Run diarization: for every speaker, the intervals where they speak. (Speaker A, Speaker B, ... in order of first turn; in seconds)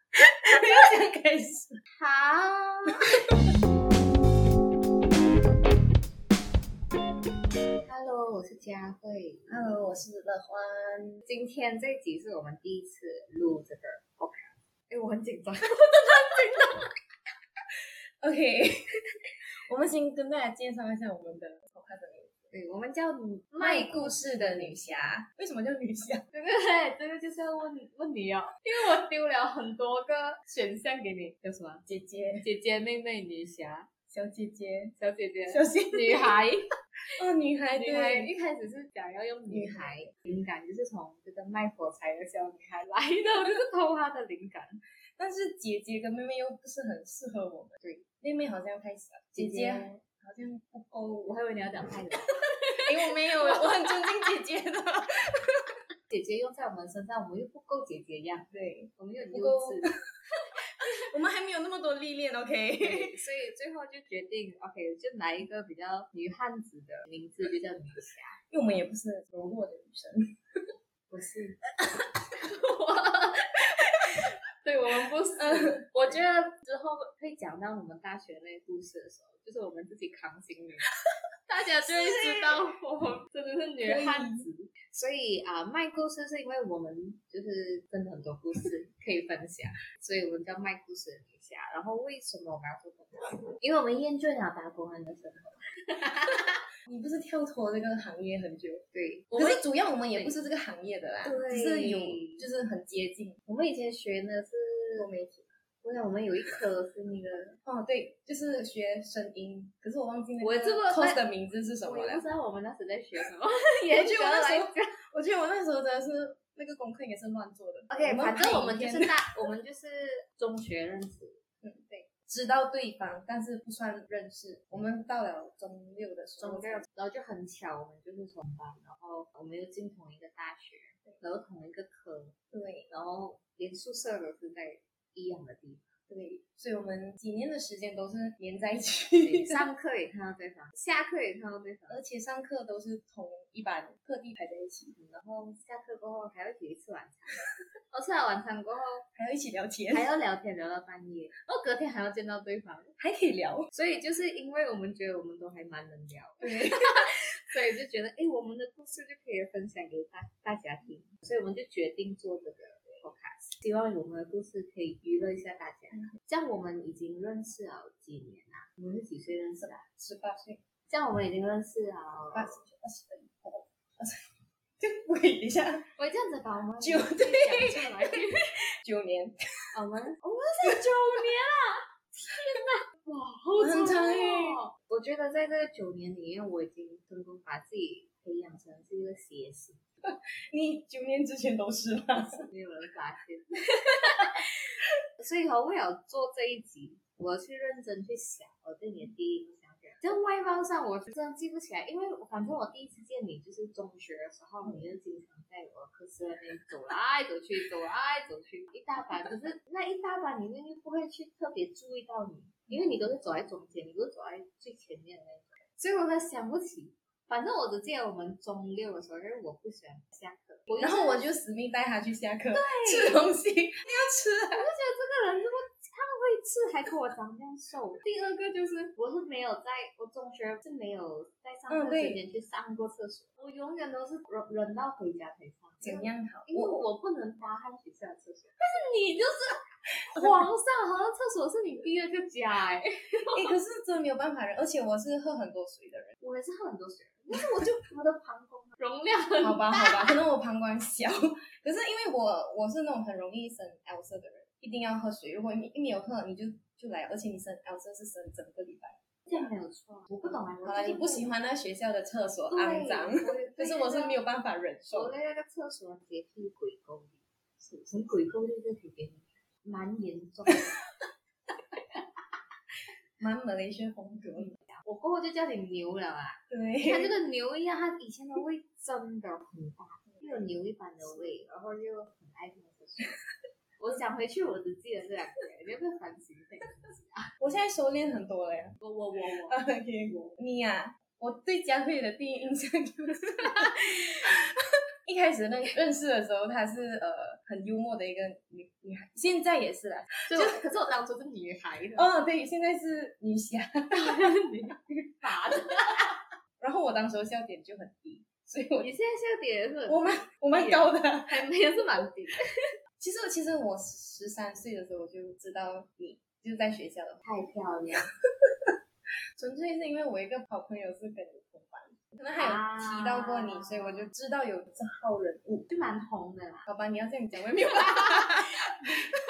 Speaker A: 0.5-1.8, 9.5-11.2, 18.2-18.8, 19.7-22.5, 23.6-26.2, 31.9-32.5, 34.1-35.0, 35.5-36.4, 37.2-38.3, 39.5-40.1, 45.2-51.4, 52.3-55.5, 58.5-60.0, 60.9-63.2, 68.5-70.2, 75.3-76.2, 81.8-82.6, 83.8-84.5, 96.9-103.4, 105.0-105.5, 107.6-112.3, 113.9-119.3, 121.6-126.9, 132.5-132.9, 136.1-139.7, 141.9-145.1, 149.2-150.1, 153.0-153.7, 156.4-156.9, 169.6-170.6, 172.3-174.2, 174.8-175.9, 176.8-179.4, 180.6-181.2, 183.6-184.6, 190.0-192.4, 204.6-204.9, 220.8-224.7, 231.7-232.2, 235.8-236.9, 243.3-246.1, 249.4-259.5, 260.2-265.2, 273.2-274.6, 276.5-277.1, 280.1-281.4, 287.4-294.3, 295.1-300.6, 301.9-306.0, 306.6-308.9, 309.9-311.4, 313.0-317.2, 319.4-325.7, 326.7-328.4
Speaker B: 2.0-3.0, 7.8-9.6, 11.3-16.9, 22.5-25.2, 26.3-31.9, 32.4-33.9, 35.0-36.7, 37.7-44.8, 49.3-50.0, 51.2-54.0, 56.1-59.9, 62.8-68.4, 71.1-71.6, 72.4-73.6, 74.6-80.9, 81.5-96.5, 98.9-100.4, 101.2-102.5, 103.5-105.1, 105.8-107.6, 110.4-111.2, 111.8-114.9, 117.9-122.1, 126.4-132.3, 132.9-135.9, 139.2-142.0, 145.0-147.4, 147.9-149.1, 149.9-152.9, 153.7-169.8, 170.9-172.6, 176.0-178.5, 179.7-189.8, 192.5-194.4, 195.2-221.3, 222.5-223.3, 224.5-239.6, 240.1-243.6, 246.2-250.2, 259.3-261.3, 262.5-264.2, 264.9-270.7, 274.4-283.1, 283.8-287.3, 288.8-289.6, 300.3-302.1, 303.9-306.0, 308.8-312.4, 317.2-318.1, 322.4-324.1, 325.7-326.6, 327.6-328.2